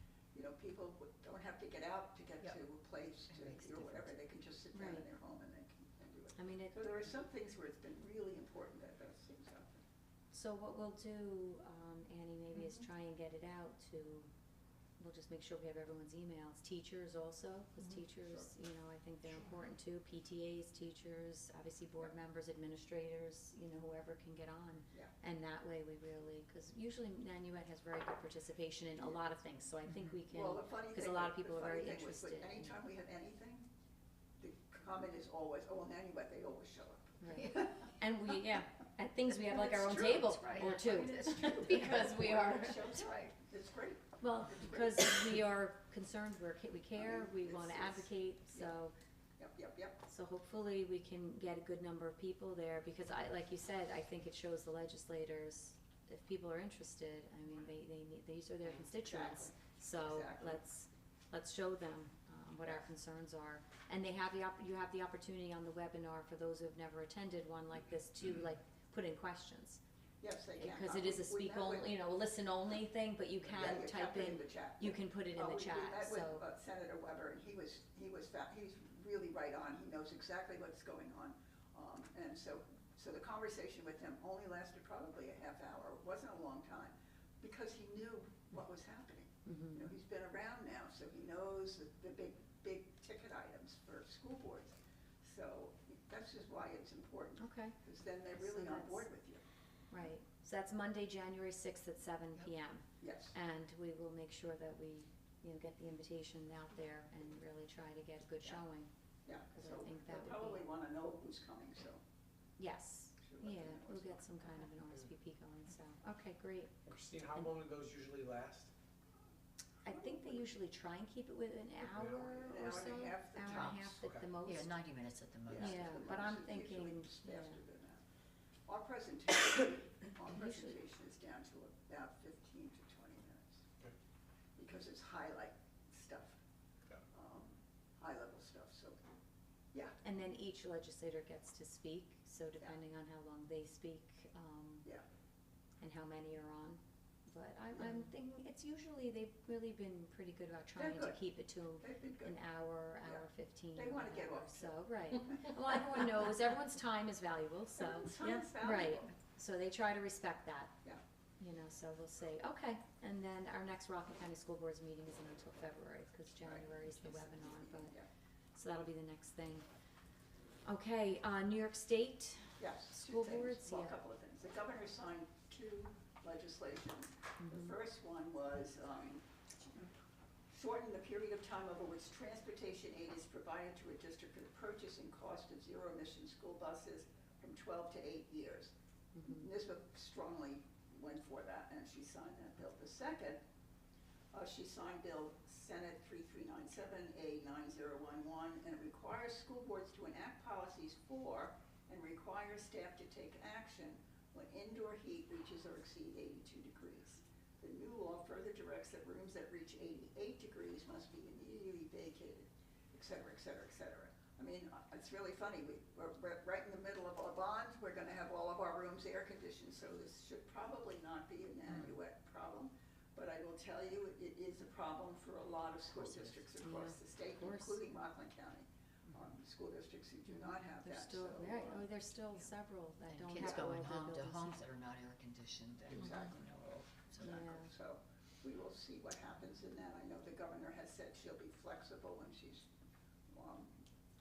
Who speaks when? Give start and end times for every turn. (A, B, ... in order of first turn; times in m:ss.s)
0:00.3-0:09.8 A
0:03.3-0:04.1 B
0:04.7-0:05.1 C
0:06.4-0:07.1 C
0:10.3-0:14.3 C
0:15.0-0:32.8 C
0:18.2-0:18.4 A
0:30.2-0:33.7 A
0:34.4-0:37.9 A
0:37.2-0:42.9 C
0:39.5-0:45.1 A
0:39.7-0:43.3 B
0:44.2-0:48.9 C
0:47.0-0:48.7 A
0:49.4-0:50.0 A
0:50.0-1:09.8 C
0:59.0-1:00.6 A
1:10.2-1:11.9 A
1:10.6-1:16.4 C
1:13.4-1:39.4 A
1:29.4-1:29.9 C
1:37.4-1:37.8 C
1:38.4-1:39.0 C
1:39.9-1:48.9 C
1:43.0-1:43.3 A
1:49.2-1:52.0 A
1:49.5-1:50.6 C
1:52.6-1:56.7 C
1:53.2-1:54.4 A
1:56.8-1:58.7 D
1:59.8-2:00.5 A
1:59.8-2:04.8 C
2:01.9-2:02.3 D
2:02.2-2:04.0 A
2:03.5-2:04.3 D
2:04.4-2:05.9 B
2:05.4-2:08.0 A
2:05.6-2:07.6 C
2:08.6-2:13.6 A
2:10.3-2:10.8 C
2:14.6-2:16.4 A
2:17.1-2:19.0 A
2:19.7-2:20.0 A
2:20.0-2:24.9 C
2:25.8-2:40.7 C
2:27.7-2:28.1 A
2:30.8-2:31.2 A
2:31.8-2:32.4 A
2:33.0-2:35.8 A
2:37.8-2:39.1 A
2:41.4-2:47.9 C
2:46.4-2:48.1 A
2:48.5-2:49.6 C
2:50.6-2:54.0 C
2:52.6-2:59.9 A
2:57.4-2:57.7 C
3:00.5-3:13.4 A
3:09.1-3:09.5 C
3:14.3-3:51.9 A
3:46.0-3:46.4 B
3:46.6-3:47.8 C
3:50.3-3:54.6 C
3:53.0-3:57.5 B
3:53.3-3:53.7 A
3:55.9-3:56.4 A
3:57.2-4:02.7 A
3:57.2-3:57.7 C
4:03.3-4:03.7 A